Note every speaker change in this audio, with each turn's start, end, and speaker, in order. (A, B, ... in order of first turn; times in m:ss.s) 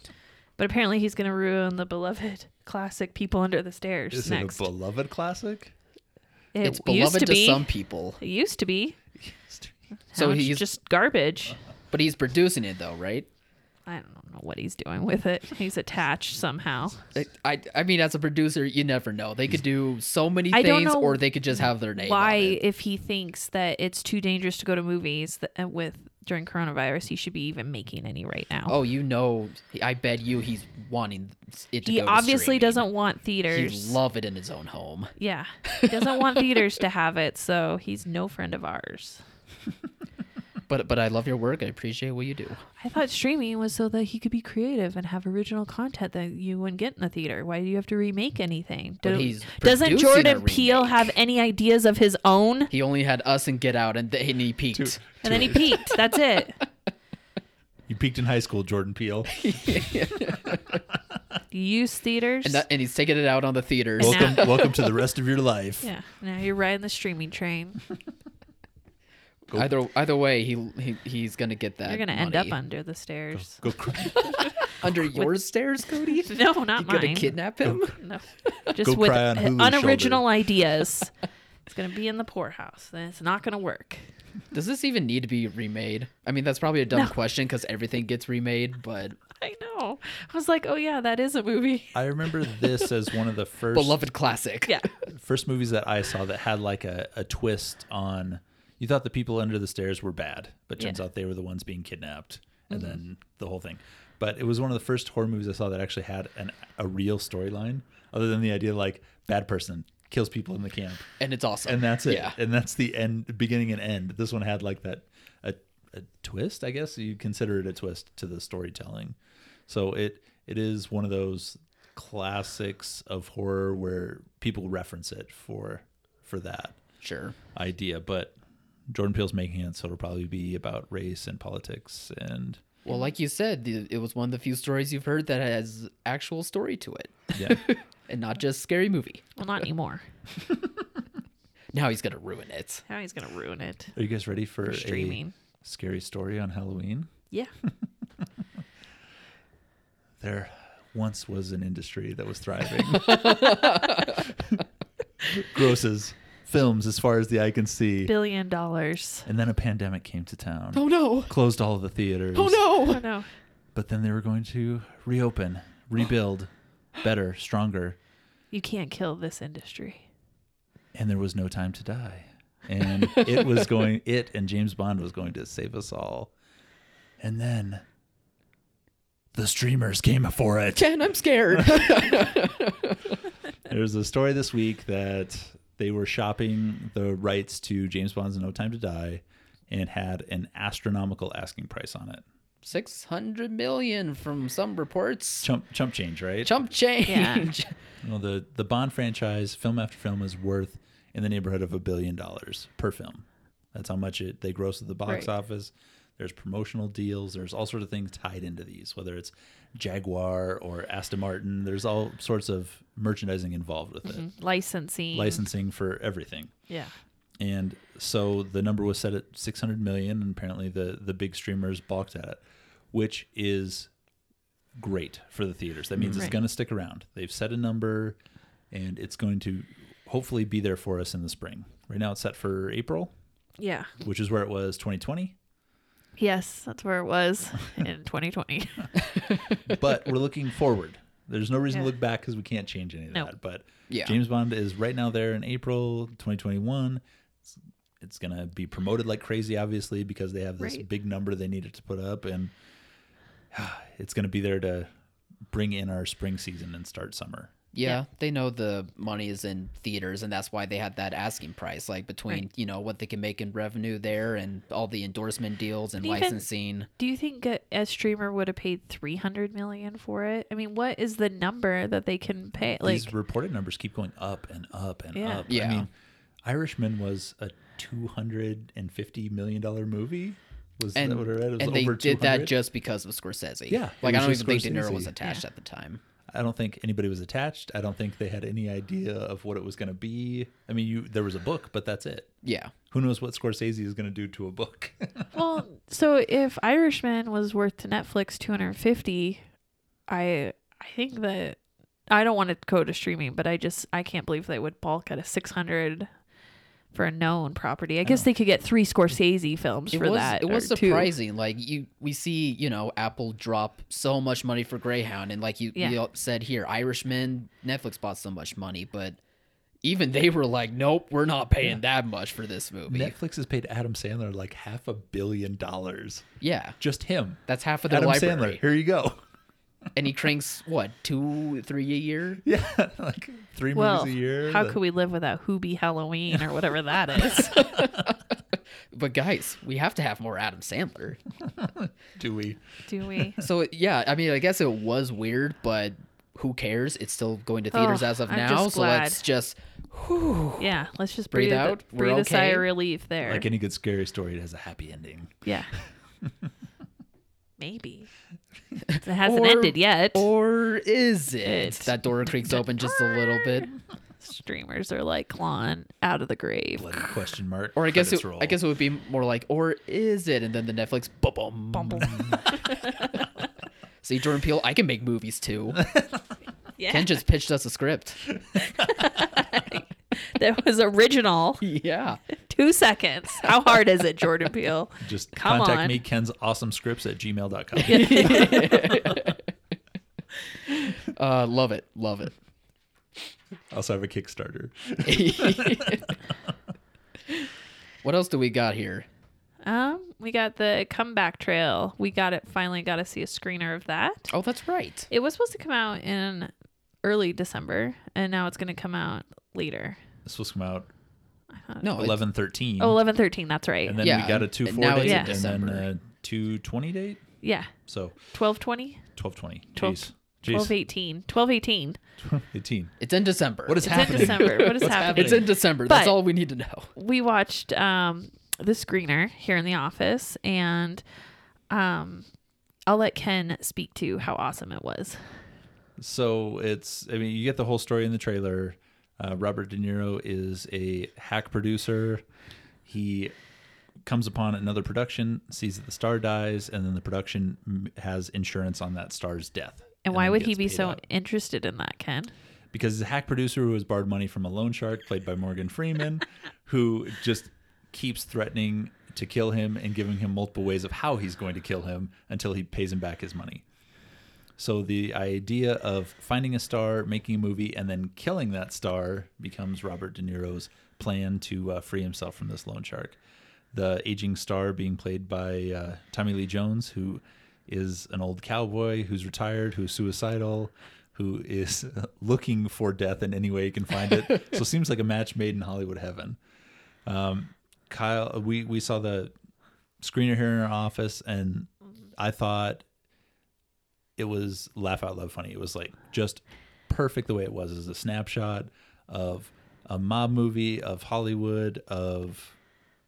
0:00.6-0:04.7 A
0:04.1-0:05.7 B
0:06.5-0:07.7 A
0:06.6-0:08.2 C
0:08.2-0:09.0 A
0:09.2-0:09.7 B
0:10.1-0:11.6 A
0:10.2-0:10.7 C
0:11.9-0:13.3 C
0:13.9-0:17.0 A
0:17.1-0:22.6 C
0:20.5-0:28.8 A
0:28.7-0:32.8 C
0:31.8-0:34.0 A
0:33.5-0:35.1 C
0:35.2-0:39.2 A
0:35.6-0:36.7 C
0:40.7-0:42.6 C
0:42.8-0:52.7 A
0:49.0-0:51.1 C
0:52.7-0:56.1 C
0:54.7-0:55.8 B
0:55.2-0:56.6 A
0:57.9-1:00.0 B
0:59.3-1:00.8 C
1:01.5-1:02.6 A
1:02.4-1:05.0 C
1:04.0-1:04.6 A
1:04.0-1:05.9 B
1:05.8-1:07.8 A
1:09.5-1:12.6 C
1:11.8-1:15.3 A
1:13.3-1:14.9 B
1:14.1-1:18.6 C
1:16.1-1:17.3 A
1:17.9-1:21.1 A
1:18.8-1:20.2 B
1:21.7-1:24.0 A
1:24.5-1:29.2 C
1:29.4-1:32.0 A
1:31.9-1:34.0 B
1:33.7-1:34.8 C
1:35.1-1:51.1 B
1:51.2-1:52.4 C
1:51.6-2:06.8 B
2:07.0-2:07.4 C
2:07.5-2:08.4 B
2:08.9-2:12.6 B
2:12.8-2:19.2 C
2:17.3-2:17.6 B
2:19.4-2:20.0 A
2:21.7-2:22.8 C
2:22.9-2:23.9 A
2:23.9-2:27.1 B
2:24.6-2:25.3 A
2:30.2-2:34.6 B
2:32.9-2:34.2 C
2:35.2-2:38.1 B
2:38.0-2:39.3 A
2:39.2-2:42.8 B
2:40.7-2:41.3 C
2:42.3-2:43.1 C
2:42.8-2:43.3 A
2:43.7-2:48.0 B
2:48.5-2:50.0 A
2:50.9-2:56.3 B
2:53.0-2:53.7 C
2:57.2-2:57.8 B
2:59.3-3:00.9 B
3:00.8-3:03.2 C
3:01.5-3:02.3 B
3:03.6-3:12.2 B
3:12.6-3:15.5 C
3:15.4-3:16.5 B
3:16.4-3:17.7 C
3:17.0-3:17.5 A
3:18.0-3:34.2 B
3:34.0-3:35.4 A
3:35.1-3:36.5 B
3:36.7-3:36.9 A
3:37.4-3:43.9 B
3:44.8-3:48.2 B
3:46.0-3:46.3 C
3:48.7-3:53.1 B
3:53.6-3:53.9 A
3:54.0-3:55.4 B
3:56.2-3:59.1 A
3:59.1-3:59.6 C
3:59.6-4:07.0 B
4:03.9-4:04.1 C
4:08.0-4:12.5 B
4:10.6-4:10.8 A
4:13.5-4:14.9 B
4:15.5-4:17.5 B
4:17.7-4:26.9 C
4:26.0-4:26.4 A
4:27.0-4:33.1 A
4:32.8-4:35.9 B
4:35.1-4:35.5 A
4:35.5-4:35.9 C
4:36.4-4:42.5 B
4:40.9-4:46.0 C
4:43.7-4:45.2 B
4:46.3-4:52.3 B
4:52.4-4:52.7 C
4:52.9-4:55.3 B
4:55.3-4:59.4 A
5:00.1-5:01.6 A
5:02.1-5:06.1 A
5:06.9-5:11.1 A
5:09.9-5:19.2 C
5:19.8-5:23.1 C
5:22.9-5:26.3 B
5:26.4-5:26.8 C
5:26.8-5:29.2 B
5:27.5-5:28.6 C
5:30.0-5:32.4 C
5:32.4-5:34.8 B
5:33.7-5:37.7 A
5:37.4-5:38.2 C
5:38.9-5:41.2 C
5:41.4-5:43.4 B
5:42.9-5:43.4 A
5:43.4-5:50.7 C
5:47.7-5:49.2 A
5:50.6-5:53.4 A
5:51.3-5:52.7 C
5:53.2-5:55.4 B
5:55.4-5:55.7 A
5:57.6-5:58.1 A
5:58.9-6:03.7 C
5:59.0-6:00.3 A
6:01.4-6:03.7 A
6:04.2-6:07.1 A
6:06.8-6:08.6 B
6:07.8-6:13.2 C
6:11.7-6:13.3 A
6:12.1-6:12.4 B
6:14.0-6:15.8 C
6:15.7-6:16.2 B
6:16.8-6:17.2 A
6:16.9-6:18.2 C
6:18.5-6:19.1 B
6:18.7-6:21.6 A
6:21.6-6:22.2 C
6:22.3-6:26.0 A
6:25.0-6:29.2 B
6:27.8-6:29.4 C
6:27.8-6:28.9 A
6:30.7-6:32.3 C
6:33.7-6:36.1 B
6:35.0-6:36.1 C
6:38.0-6:39.0 C
6:39.6-6:44.3 A
6:44.3-6:45.1 C
6:45.1-6:46.5 A
6:47.0-6:50.0 A
6:50.2-6:50.9 B
6:51.5-6:52.1 A
6:51.8-6:52.2 C
6:52.0-6:53.0 B
6:52.8-6:54.0 A
6:53.8-6:57.2 B
6:54.0-6:55.9 C
6:55.0-6:55.3 A
6:57.4-6:57.7 A
6:57.8-6:58.2 B
6:58.3-6:59.1 A
6:59.2-7:00.7 B
6:59.8-7:02.0 A
7:02.2-7:02.9 B
7:03.0-7:06.9 C
7:03.6-7:05.5 B
7:03.8-7:06.2 A
7:06.9-7:11.0 A
7:11.7-7:12.2 A
7:12.9-7:15.2 A
7:16.0-7:22.2 B
7:22.8-7:23.3 B
7:24.0-7:31.0 B
7:30.0-7:32.3 A
7:32.7-7:43.6 B
7:44.6-7:53.2 B
7:53.7-8:06.4 B
8:07.0-8:09.3 B
8:10.0-8:12.8 B
8:14.2-8:22.6 B